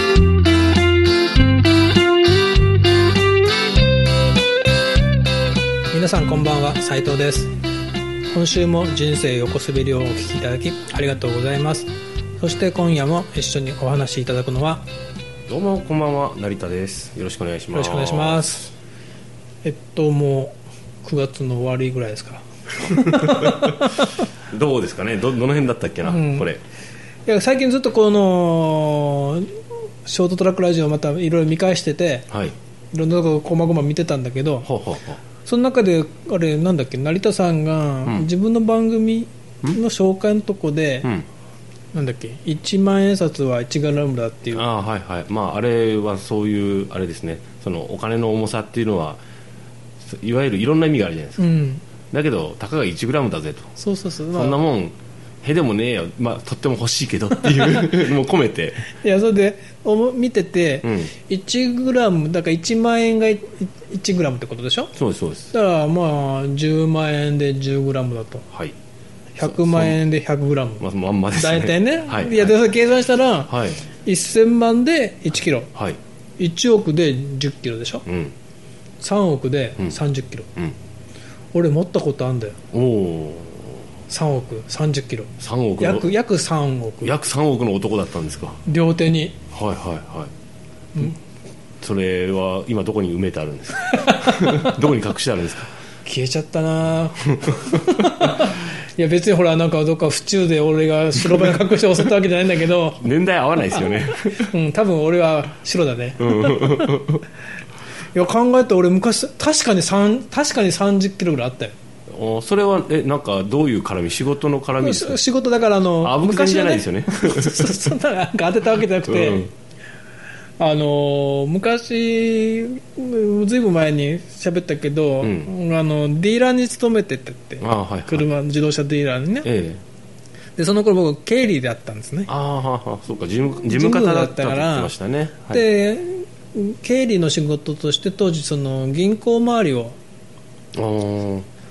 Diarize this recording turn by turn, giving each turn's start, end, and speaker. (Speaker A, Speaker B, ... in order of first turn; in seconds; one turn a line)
Speaker A: 5.9-7.5
Speaker A: 8.3-14.8
Speaker B: 15.5-18.6
Speaker A: 17.7-18.7
Speaker A: 19.6-24.1
Speaker B: 23.0-23.9
Speaker B: 24.4-26.6
Speaker A: 26.0-26.5
Speaker A: 27.3-32.3
Speaker A: 32.9-34.7
Speaker B: 34.6-35.2
Speaker A: 35.5-41.1
Speaker A: 41.9-44.7
Speaker B: 44.5-49.2
Speaker B: 50.0-51.5
Speaker A: 51.4-51.8
Speaker B: 52.1-53.7
Speaker A: 53.8-54.6
Speaker B: 54.3-58.9
Speaker A: 57.4-58.0
Speaker A: 58.9-64.9
Speaker B: 60.8-61.1
Speaker B: 65.0-65.5
Speaker A: 65.5-68.5
Speaker A: 69.3-75.7
Speaker B: 69.4-70.0
Speaker B: 70.8-72.7
Speaker B: 73.5-73.8
Speaker B: 75.7-76.0
Speaker A: 76.4-78.1
Speaker B: 78.1-78.3
Speaker A: 79.0-80.5
Speaker A: 81.5-82.6
Speaker B: 82.7-83.8
Speaker A: 84.1-87.2
Speaker B: 85.4-86.1
Speaker B: 87.0-88.6
Speaker A: 88.7-89.4
Speaker B: 89.5-90.3
Speaker B: 91.8-95.7
Speaker A: 93.9-94.8
Speaker A: 96.0-103.0
Speaker B: 97.4-98.2
Speaker B: 103.0-104.5
Speaker A: 103.7-107.0
Speaker B: 106.2-107.2
Speaker A: 108.1-111.8
Speaker B: 112.1-115.2
Speaker A: 114.8-119.5
Speaker B: 116.0-118.0
Speaker B: 119.1-119.5
Speaker A: 120.6-129.5
Speaker B: 125.2-125.5
Speaker B: 127.6-128.3
Speaker B: 129.4-129.8
Speaker A: 130.6-132.3
Speaker B: 132.3-135.7
Speaker A: 133.6-134.9
Speaker A: 135.5-140.0
Speaker B: 140.8-141.5